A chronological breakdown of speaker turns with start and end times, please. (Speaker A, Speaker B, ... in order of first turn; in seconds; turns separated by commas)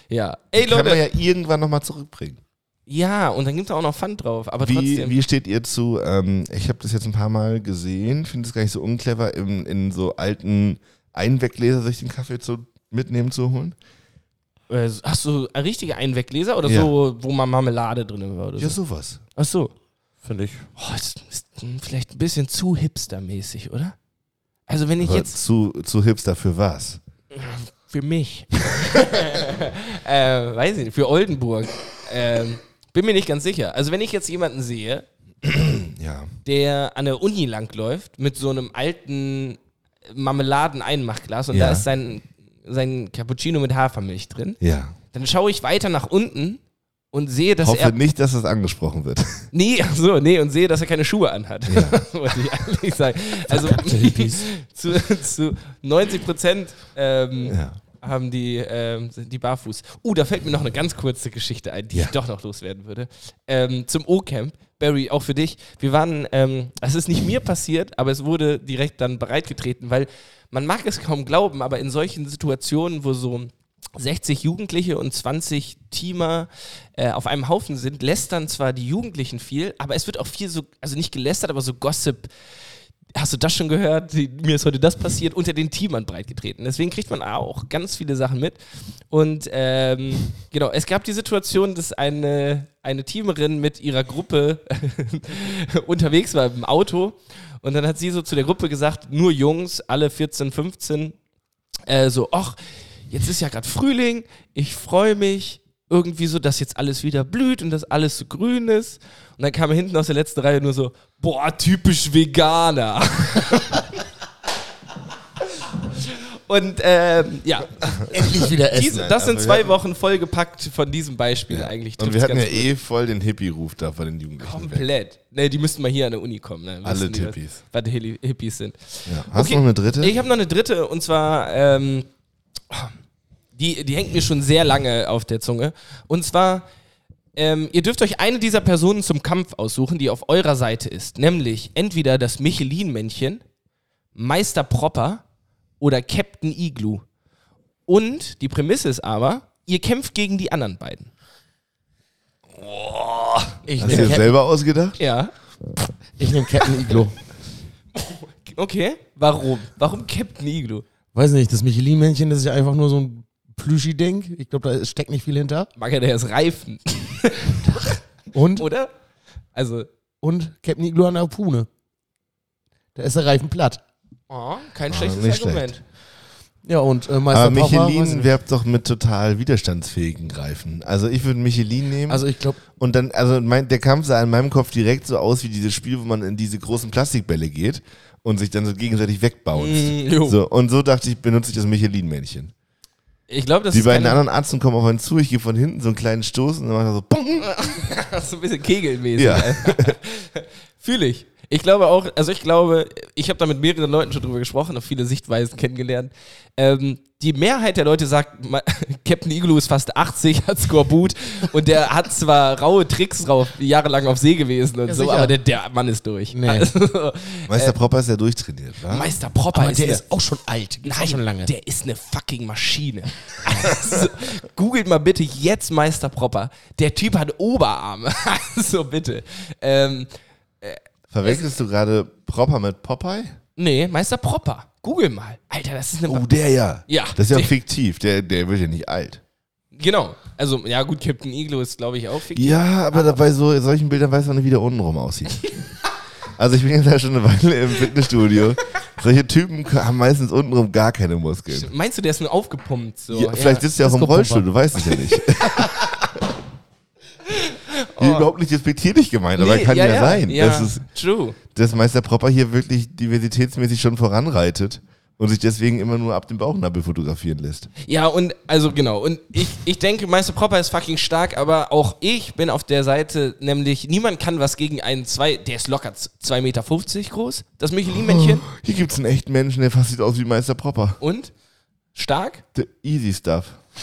Speaker A: 0.1-1.0, Speaker B: 0.6-2.4, Speaker A: 2.9-5.2, Speaker B: 4.6-13.8, Speaker A: 14.7-18.8, Speaker B: 16.6-16.9, Speaker B: 18.6-19.2, Speaker A: 19.4-19.7, Speaker C: 20.2-20.7, Speaker A: 20.8-24.0, Speaker A: 24.7-25.4, Speaker B: 25.0-27.0, Speaker A: 27.3-35.1, Speaker B: 35.4-36.3, Speaker A: 36.5-44.6, Speaker B: 41.5-41.9, Speaker B: 44.6-45.0, Speaker A: 45.1-46.6, Speaker A: 47.1-48.0, Speaker B: 47.6-49.5, Speaker A: 49.5-82.3, Speaker B: 51.7-52.0, Speaker C: 53.5-54.5, Speaker B: 57.5-57.8, Speaker A: 83.2-88.6, Speaker A: 89.1-101.2, Speaker A: 101.9-113.9, Speaker A: 115.6-122.7, Speaker B: 117.9-119.7, Speaker C: 118.1-119.2, Speaker B: 121.5-124.8, Speaker A: 124.4-132.1, Speaker B: 126.8-127.6, Speaker B: 129.1-130.2, Speaker A: 132.7-132.9, Speaker A: 133.6-136.7, Speaker A: 137.3-143.4, Speaker A: 144.2-145.2, Speaker A: 145.8-147.0, Speaker A: 147.9-151.1, Speaker B: 152.6-155.0, Speaker C: 153.7-154.3, Speaker A: 153.8-154.2, Speaker A: 155.0-155.3, Speaker C: 156.2-157.2, Speaker A: 156.6-156.9, Speaker A: 157.9-160.8, Speaker C: 161.2-165.7, Speaker A: 165.8-168.0, Speaker C: 168.3-168.7, Speaker A: 168.6-168.9, Speaker A: 169.6-169.9, Speaker C: 170.2-171.7, Speaker C: 172.9-173.8, Speaker A: 174.3-175.8, Speaker B: 174.9-175.7, Speaker C: 176.7-178.3, Speaker B: 177.3-182.2, Speaker C: 182.1-182.6, Speaker B: 182.8-192.5, Speaker A: 189.6-190.4, Speaker A: 193.3-194.2, Speaker B: 193.7-197.6, Speaker A: 197.4-217.7, Speaker B: 199.2-200.0, Speaker C: 214.9-215.3, Speaker C: 216.3-216.7, Speaker B: 217.5-219.2, Speaker A: 218.9-220.0, Speaker C: 219.5-221.5, Speaker A: 220.8-231.5, Speaker B: 231.1-233.4, Speaker A: 233.6-236.3, Speaker B: 236.1-239.2, Speaker A: 236.9-237.5, Speaker A: 239.7-243.2, Speaker B: 242.3-245.5, Speaker B: 246.3-251.7, Speaker A: 251.5-253.7, Speaker B: 253.1-256.1, Speaker C: 253.8-254.4, Speaker A: 254.9-255.9, Speaker A: 257.2-258.3, Speaker B: 258.0-260.9, Speaker A: 259.4-261.4, Speaker B: 261.5-267.7, Speaker A: 267.8-278.4, Speaker B: 277.9-281.0, Speaker A: 281.0-281.3, Speaker A: 281.9-282.4, Speaker B: 282.6-283.6